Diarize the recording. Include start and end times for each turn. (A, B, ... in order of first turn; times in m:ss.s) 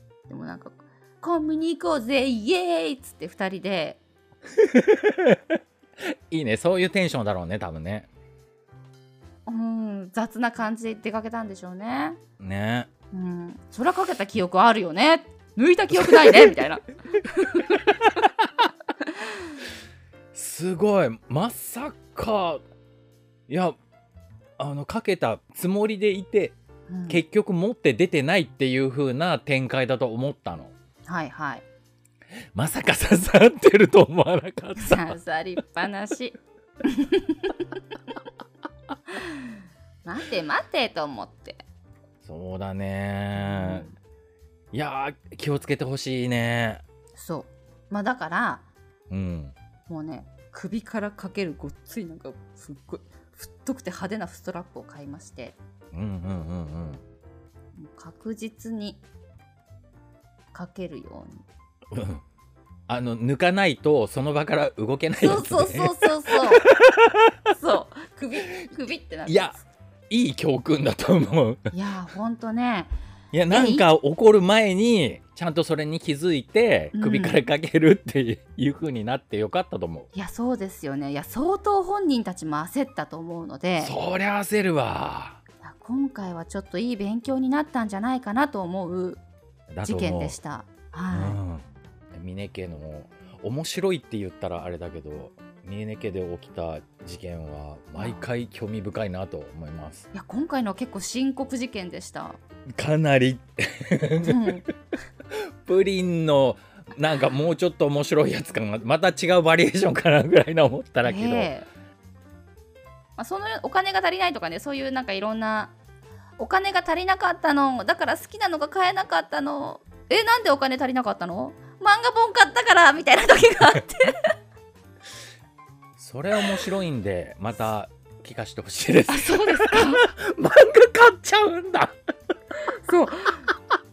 0:00.3-0:04.0 A
0:04.6-0:05.4 B
0:06.3-0:08.1 B
0:09.5-0:12.2 A
0:12.4-0:12.9 B
0:13.1-0:18.1 A
0:15.9-0:16.6 B
0:20.3-0:22.6 B
0:23.5-0:23.8 B
0:24.6-0:26.6 B
0:26.9-0:27.2 A
0:27.1-0:30.7 B
0:31.1-0:31.6 A
0:32.6-0:35.2 B
0:34.8-0:36.4 A
0:36.9-0:37.7 A
0:40.0-0:41.6 A
0:42.2-0:43.9 B
0:43.4-0:44.0 A
0:44.7-0:46.8 B
0:47.2-0:48.6 A
0:49.1-0:49.6 B
0:49.9-0:55.6 A
0:55.9-0:57.0 B
0:57.8-0:59.0 A
1:00.5-1:01.4 A
1:01.9-1:02.2 B
1:02.9-1:07.3 B
1:05.2-1:06.7 A
1:07.5-1:09.6 A
1:09.3-1:09.6 B
1:10.1-1:11.7 B
1:11.7-1:12.9 A
1:13.3-1:20.1 B
1:13.5-1:13.9 A
1:16.9-1:17.4 A
1:20.1-1:23.9 A
1:23.8-1:25.4 B
1:25.6-1:29.2 A
1:29.7-1:30.4 B
1:29.8-1:31.4 A
1:31.1-1:40.1 B
1:38.0-1:38.2 A
1:40.1-1:42.4 A
1:42.7-1:44.5 B
1:44.2-1:44.6 A
1:45.6-1:51.5 B
1:51.0-1:51.7 A
1:53.2-1:55.7 A
1:56.4-2:04.3 A
2:06.0-2:12.0 B
2:09.1-2:10.0 A
2:12.8-2:13.5 A